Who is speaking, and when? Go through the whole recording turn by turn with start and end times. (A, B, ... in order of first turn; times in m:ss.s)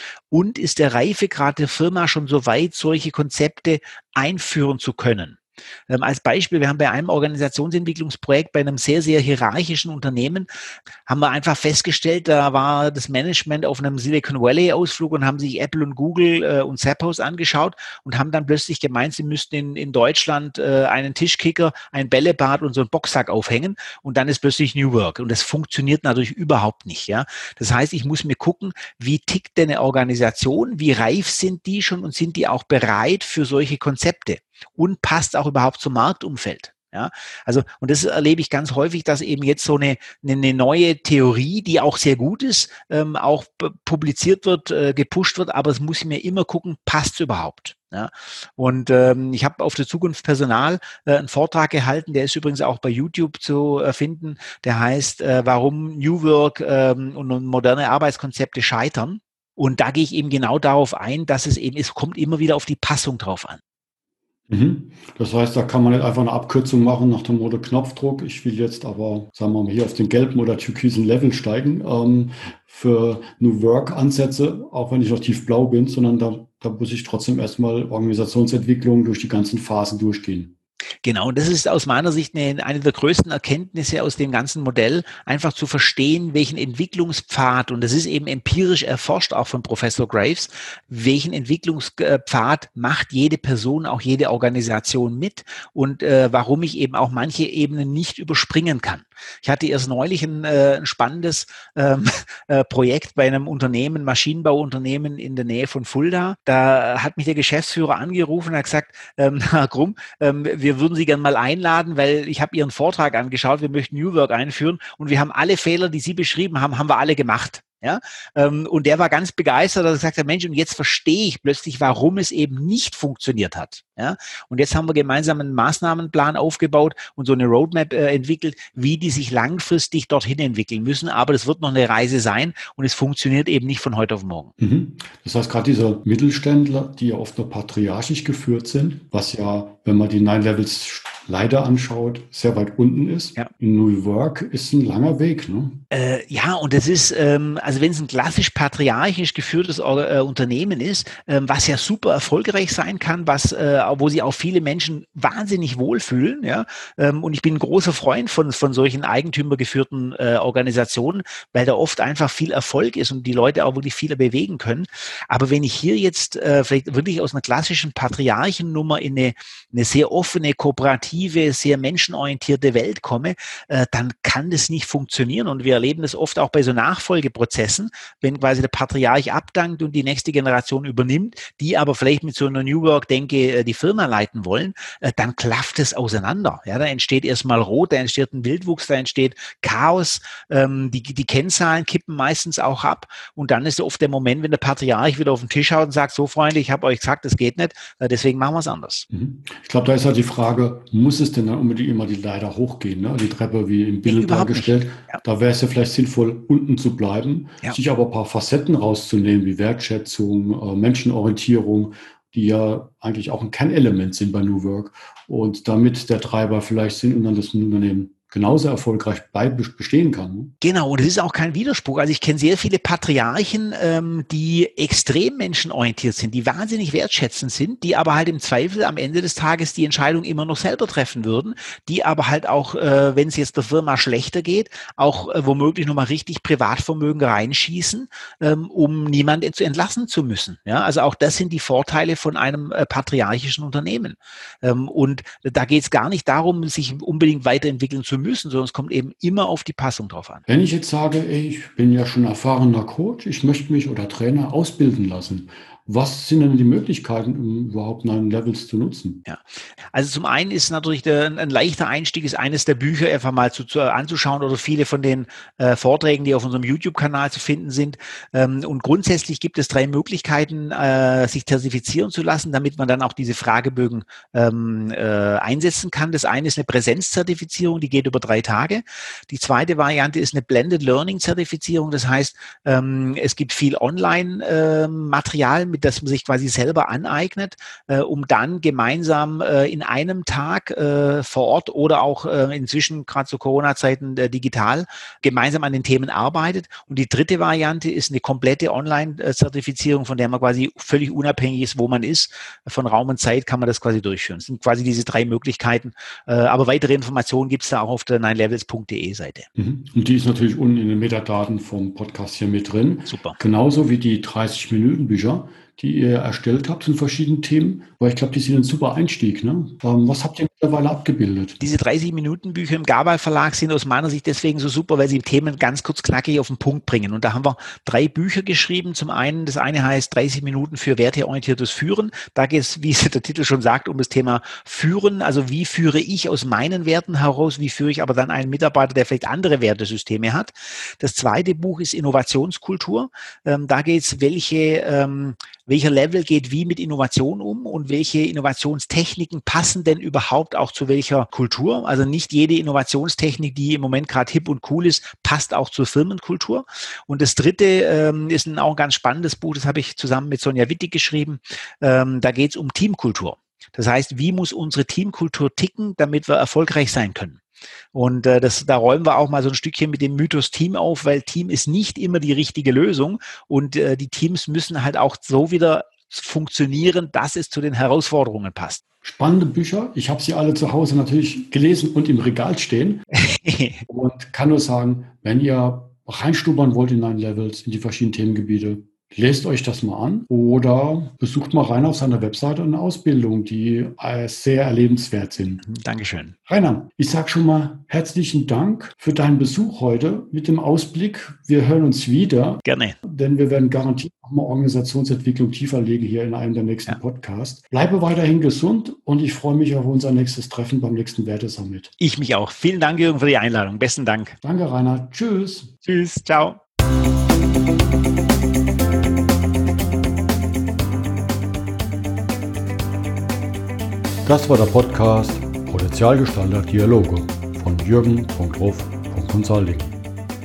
0:00.3-0:05.4 A
0:05.9-0:10.5 A
0:11.1-1:03.6 A
1:04.5-1:20.5 B
1:21.0-2:14.5 A
2:14.6-2:25.8 B
2:25.9-3:19.1 A
3:19.1-3:40.5 B
3:24.1-3:25.2 A
3:40.6-4:10.4 A
4:10.5-4:19.2 B
4:19.3-5:09.5 A
5:09.6-5:21.6 B
5:13.1-5:13.4 A
5:21.6-6:07.4 A
6:07.9-6:18.8 A
6:19.0-6:23.0 B
6:23.2-6:23.8 A
6:23.9-6:35.6 B
6:35.6-6:36.4 A
6:36.5-6:51.9 B
6:42.6-6:43.0 A
6:52.0-6:54.4 A
6:54.4-6:55.7 B
6:55.8-6:56.6 A
7:04.3-7:10.0 B